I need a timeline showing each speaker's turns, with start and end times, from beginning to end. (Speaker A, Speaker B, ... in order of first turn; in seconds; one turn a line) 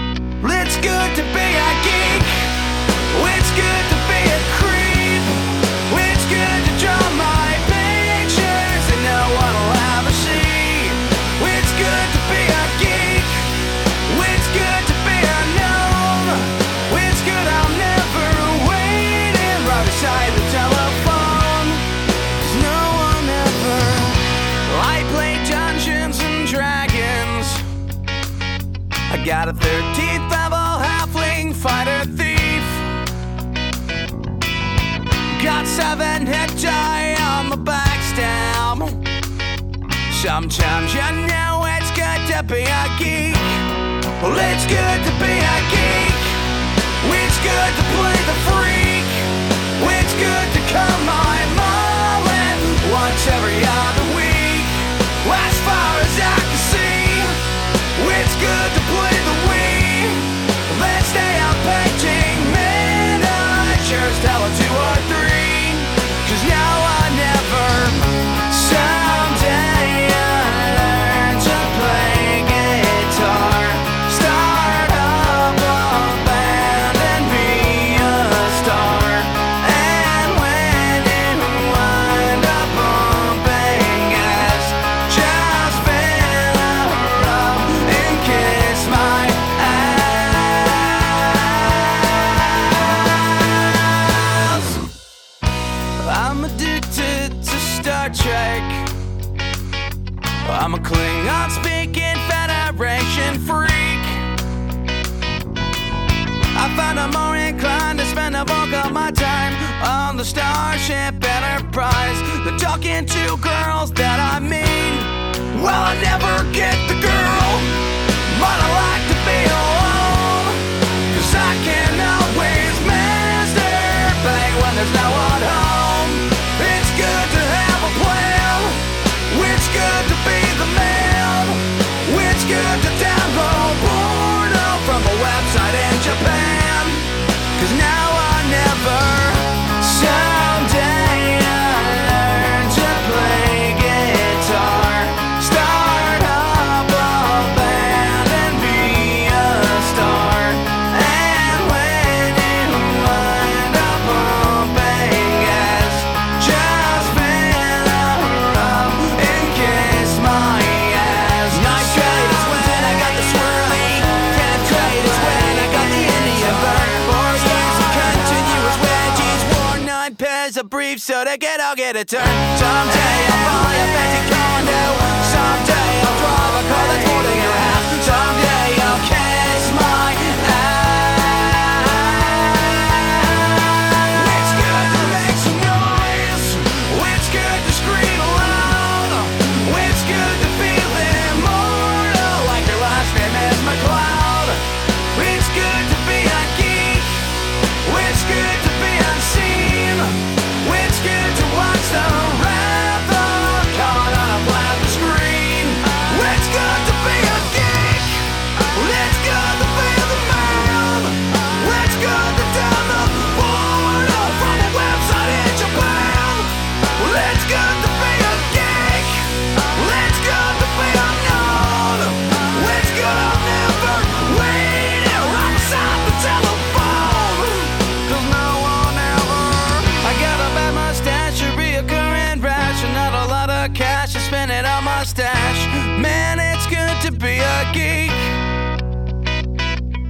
Speaker A: 0.4-2.5
Speaker A: 3.1-13.5
Speaker A: 14.1-21.8
Speaker A: 22.4-27.6
Speaker A: 29.1-32.9
Speaker A: 35.3-39.0
Speaker A: 40.1-43.5
Speaker A: 44.2-46.4
Speaker A: 47.0-57.3
Speaker A: 57.9-94.8
Speaker A: 96.0-98.9
Speaker A: 100.4-104.3
Speaker A: 106.5-194.6
Speaker A: 195.1-197.1
Speaker A: 197.8-238.4